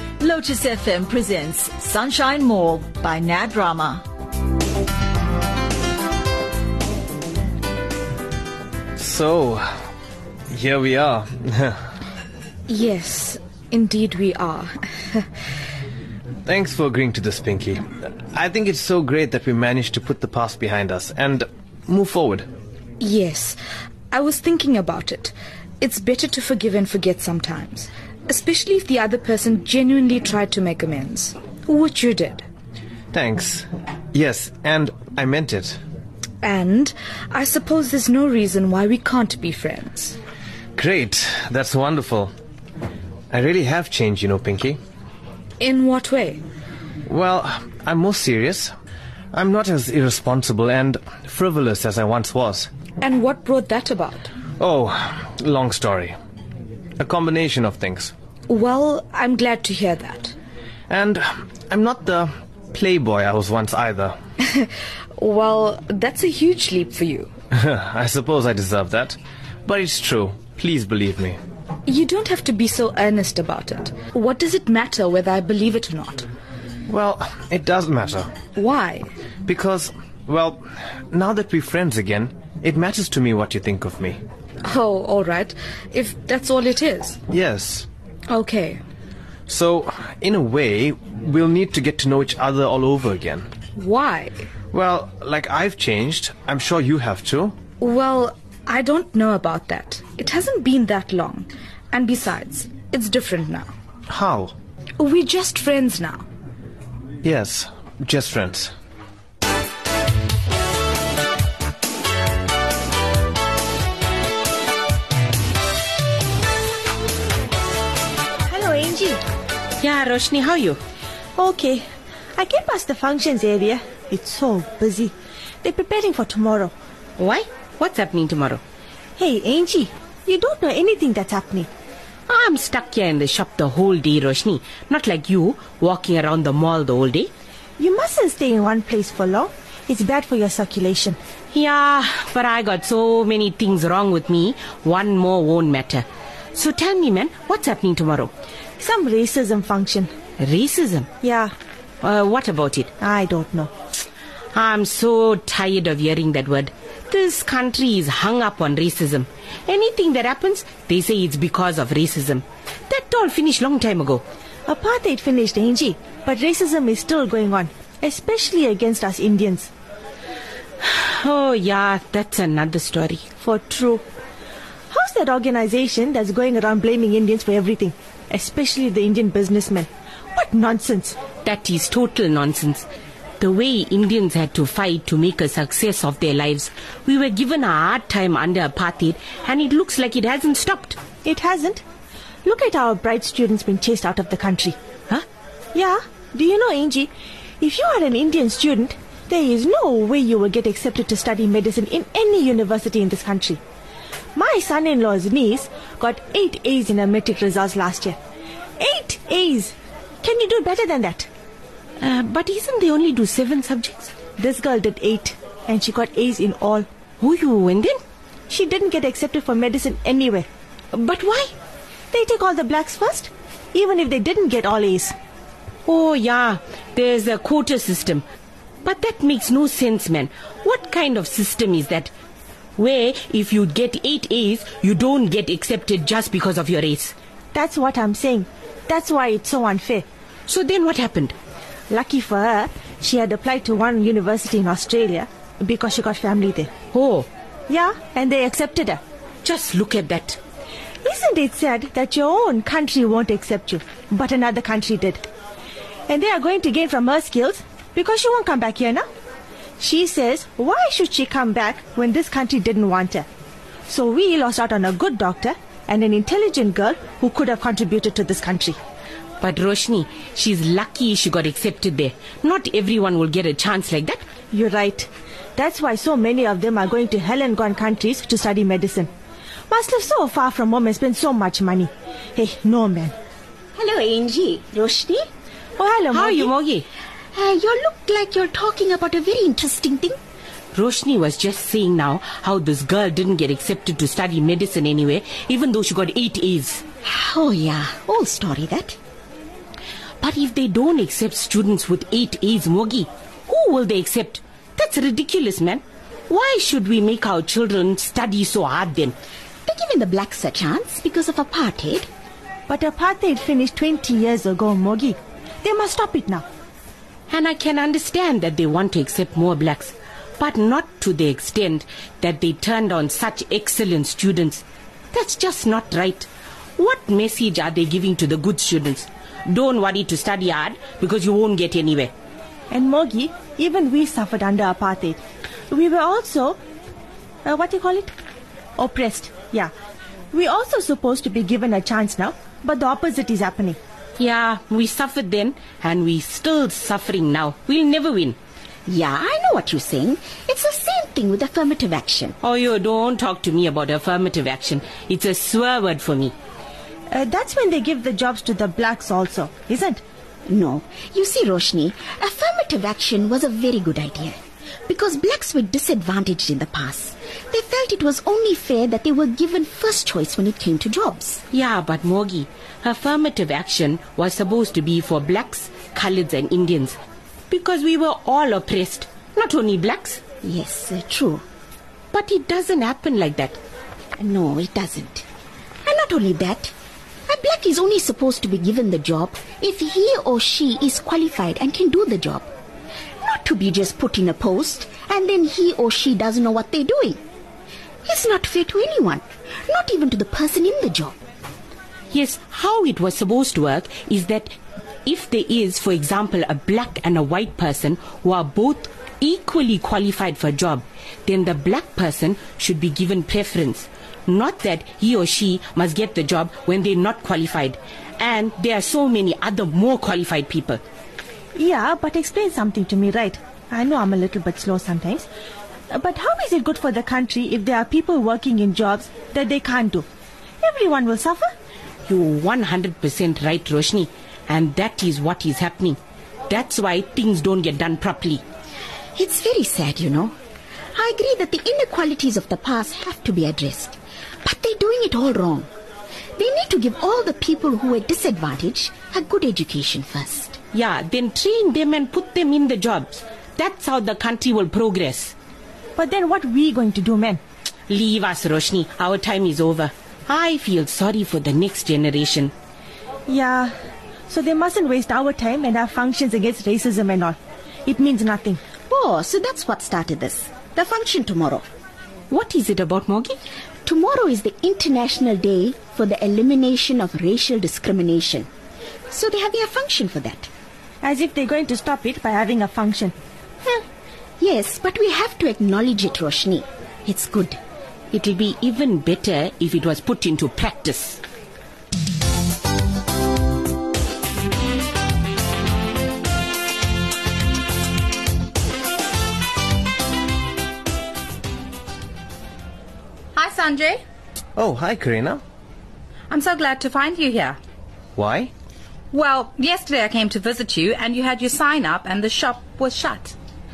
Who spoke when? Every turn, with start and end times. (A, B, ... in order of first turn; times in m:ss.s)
0:00.2-0:04.0 A
0:09.0-0:09.6 B
0:10.5-0:11.8 B
0:12.7-0:15.2 C
0:16.5-0:22.5 B
0:23.0-0:23.6 C
0:24.1-0:32.4 C
0:33.1-0:35.8 B
0:36.4-0:40.2 C
0:40.8-0:42.3 B
0:43.3-0:44.8 B
0:45.6-0:46.4 C
0:47.1-0:48.7 B
0:49.3-0:52.7 B
0:53.0-0:54.3 C
0:54.6-0:56.2 B
0:57.0-0:58.1 B
0:58.5-1:00.4 C
1:00.9-1:04.2 B
1:04.5-1:07.3 C
1:07.5-1:11.4 B
1:11.9-1:16.3 C
1:16.9-1:18.3 B
1:18.6-1:19.1 C
1:19.5-1:24.2 B
1:24.7-1:27.2 C
1:27.3-1:27.9 B
1:28.3-1:28.8 C
1:29.5-1:33.5 B
1:33.8-1:34.4 C
1:34.7-1:37.6 B
1:37.8-1:43.7 C
1:44.1-1:44.5 B
1:45.0-1:46.3 C
1:47.2-1:48.7 B
1:58.5-1:59.2 D
1:59.8-2:00.8 E
2:01.4-2:01.8 D
2:02.4-2:06.7 D
2:07.2-2:08.6 E
2:09.2-2:11.7 D
2:12.3-2:17.3 E
2:17.8-2:21.2 D
2:21.5-2:28.3 E
2:28.8-2:30.1 D
2:30.4-2:31.1 E
2:31.2-2:31.5 D
2:32.0-2:32.9 E
2:33.0-2:33.7 D
2:34.6-2:44.2 E
2:44.7-2:49.7 D
2:50.8-2:53.3 E
2:53.4-2:54.0 D
2:54.9-3:01.2 D
3:01.4-3:02.9 E
3:03.4-3:11.0 E
3:11.2-3:11.8 D
3:12.4-3:14.8 D
3:15.7-3:23.6 D
3:24.4-3:28.2 D
3:28.8-3:31.3 D
3:32.0-3:34.1 E
3:34.4-3:36.9 D
3:37.2-3:38.0 E
3:38.5-3:40.5 D
3:40.9-3:41.5 E
3:42.1-3:45.1 D
3:45.9-3:48.2 E
3:48.8-3:52.1 E
3:52.8-3:57.1 E
3:57.5-4:00.1 D
4:00.5-4:01.4 E
4:01.9-4:06.7 D
4:06.9-4:07.3 E
4:07.7-4:09.0 D
4:09.4-4:10.4 E
4:11.0-4:15.2 D
4:16.1-4:19.0 D
4:19.8-4:23.3 D
4:23.9-4:28.8 D
4:29.4-4:34.2 E
4:34.5-4:39.1 D
4:39.7-4:43.1 D
4:43.8-4:45.3 F
4:45.8-4:46.5 D
4:46.1-4:46.9 E
4:47.3-4:50.2 F
4:50.7-4:56.8 E
4:57.0-4:59.0 F
5:00.2-5:09.2 E
5:09.7-5:12.1 F
5:12.7-5:16.5 D
5:17.3-5:32.1 E
5:32.7-5:36.6 D
5:37.4-5:38.1 D
5:38.8-5:39.7 D
5:40.3-5:43.8 D
5:44.2-5:48.4 E
5:48.9-5:52.4 F
5:52.4-5:56.3 E
5:57.1-6:00.0 D
6:00.5-6:11.4 F
6:11.5-6:17.0 E
6:17.5-6:20.2 E
6:20.4-6:21.4 F
6:22.1-6:23.6 E
6:24.2-6:25.2 F
6:25.9-6:26.7 F
6:27.3-6:32.5 F
6:33.2-6:37.2 F
6:38.0-6:41.2 F
6:42.1-6:44.5 E
6:45.1-7:00.8 E
7:01.6-7:05.3 D
7:05.9-7:10.1 D
7:10.6-7:11.5 D
7:12.1-7:18.4 E
7:19.2-7:20.4 F
7:21.0-7:25.7 F
7:26.4-7:30.6 F
7:30.7-7:35.3 E
7:36.0-7:37.4 D
7:37.9-7:42.5 E
7:43.3-7:43.7 D
7:44.3-7:48.6 D
7:48.9-7:51.6 F
7:52.3-7:53.4 E
7:53.9-7:58.5 F
7:59.1-8:00.5 F
8:01.0-8:03.1 D
8:04.4-8:07.6 F
8:08.1-8:11.2 E
8:23.4-8:24.0 G
8:24.6-8:25.4 B
8:26.3-8:27.6 G
8:28.2-8:28.5 B
8:29.1-8:33.4 G